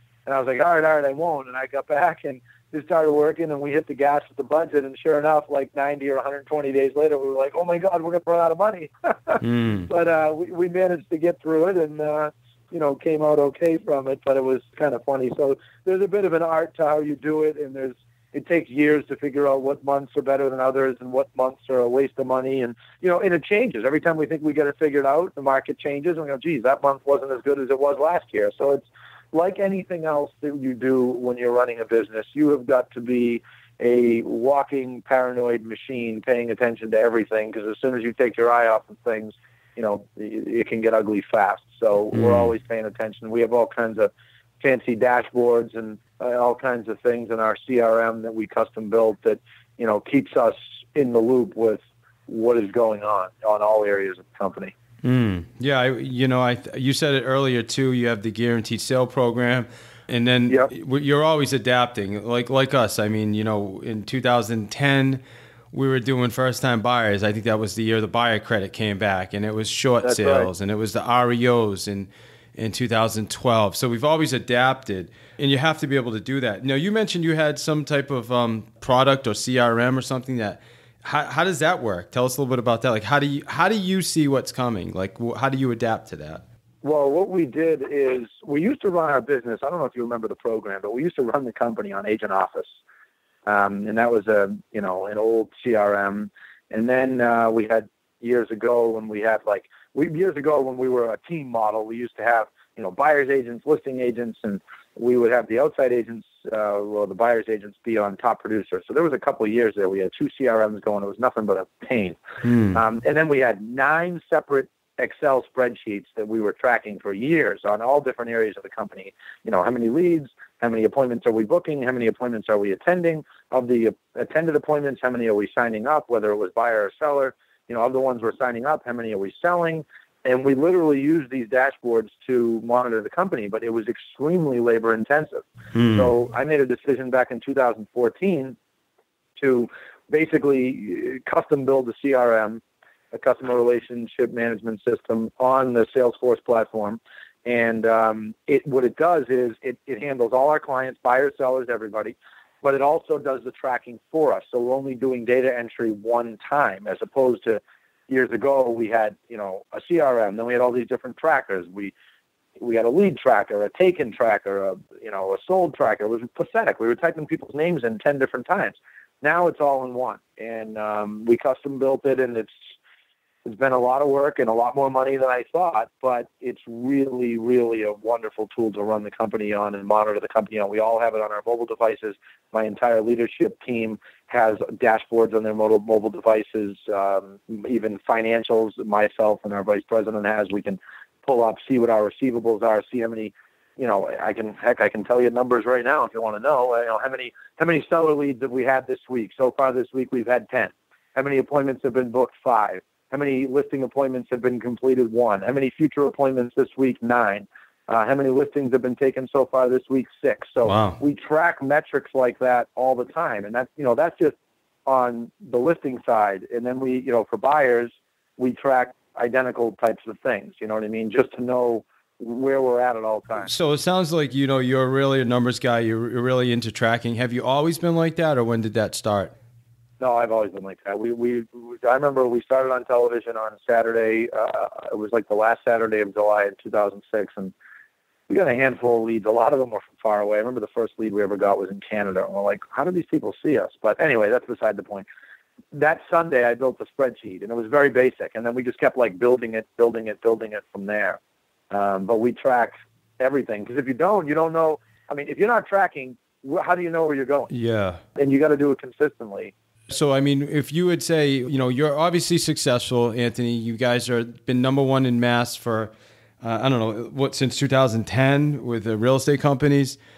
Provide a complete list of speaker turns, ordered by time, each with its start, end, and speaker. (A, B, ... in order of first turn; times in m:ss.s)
0:00.2-0:54.7 A
0:09.4-0:09.9 B
0:42.1-0:42.5 B
0:55.0-1:26.4 B
1:10.0-1:10.5 A
1:26.8-1:32.8 A
1:33.4-2:18.6 A
1:52.4-1:52.8 B
2:15.7-2:16.1 B
2:19.4-2:41.9 A
2:42.6-2:52.5 A
2:53.4-3:34.3 A
3:30.6-3:31.0 B
3:34.8-3:43.5 A
3:43.4-3:49.3 B
3:50.0-3:57.5 A
3:58.3-4:05.0 A
4:05.7-4:11.2 A
4:11.7-4:17.5 A
4:17.5-4:18.0 B
4:18.2-4:19.5 A
4:19.9-4:30.0 B